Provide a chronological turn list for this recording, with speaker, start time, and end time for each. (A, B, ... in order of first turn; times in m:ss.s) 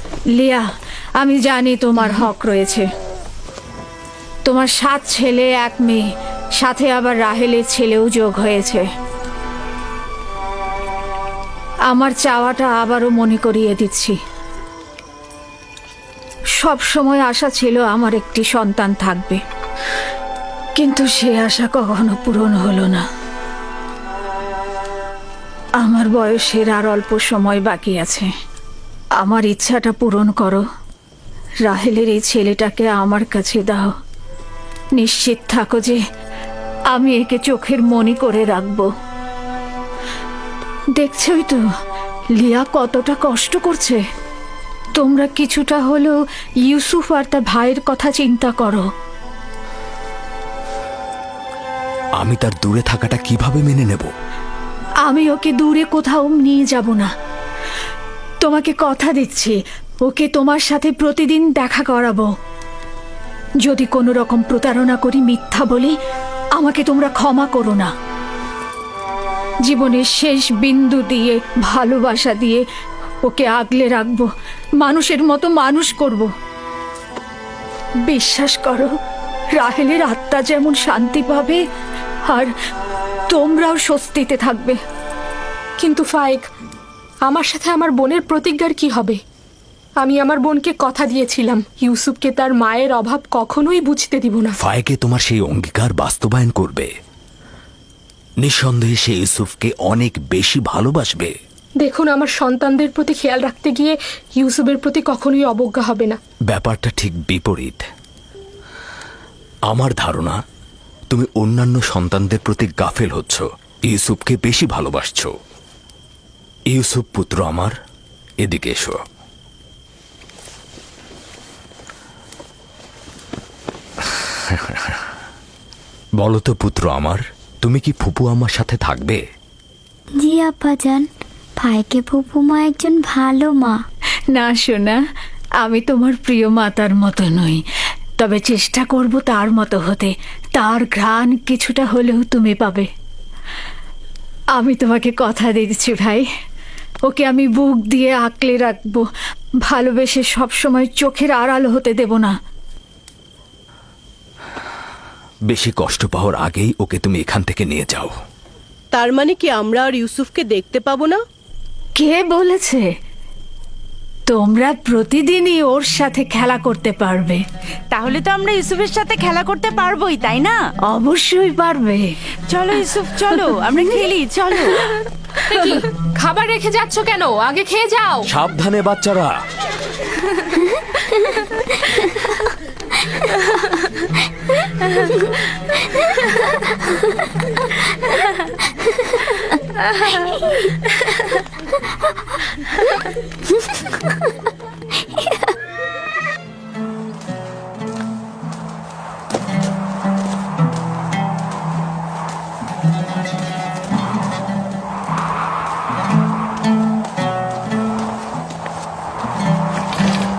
0:00.4-0:00.6 A
0:01.2-0:02.9 A
0:04.5-0:06.0 A
0:06.6-0:08.9 A
0:11.9-0:14.2 A
0:16.6-0:19.4 A
0:20.8-0:23.0 A
0:25.8-0:28.3 A
0:29.2-0:30.6 A
0:31.6-0:33.9 A
0:35.0-0:36.0 A
0:36.9-0:38.9 A
0:41.0-0:41.6 A
0:42.4-0:44.0 A
0:45.0-0:46.2 A
0:46.7-0:48.9 A
0:52.2-0:54.1 B
0:55.0-0:57.1 A
0:58.4-1:02.3 A
1:03.6-1:05.9 A
1:06.6-1:07.9 A
1:09.6-1:12.6 A
1:13.2-1:14.3 A
1:14.8-1:16.3 A
1:18.1-1:18.9 A
1:19.6-1:21.6 A
1:23.3-1:24.8 A
1:25.8-1:26.5 C
1:27.3-1:29.2 C
1:30.0-1:34.6 C
1:34.6-1:36.9 B
1:38.4-1:41.3 B
1:41.8-1:46.2 C
1:46.5-1:47.9 B
1:49.7-1:50.4 B
1:51.1-1:55.3 B
1:56.7-1:57.7 B
1:58.4-1:59.0 B
2:04.5-2:04.9 B
2:06.2-2:09.2 B
2:10.2-2:11.1 D
2:11.6-2:13.8 D
2:14.3-2:15.0 A
2:15.6-2:17.6 A
2:18.2-2:22.9 A
2:24.6-2:26.2 A
2:27.1-2:29.1 A
2:29.7-2:32.3 A
2:35.5-2:38.1 B
2:38.9-2:41.2 E
2:42.0-2:42.8 A
2:44.3-2:47.4 A
2:47.9-2:50.6 F
2:50.9-2:52.1 A
2:52.5-2:54.9 F
2:55.5-2:58.3 C
2:58.2-2:59.4 B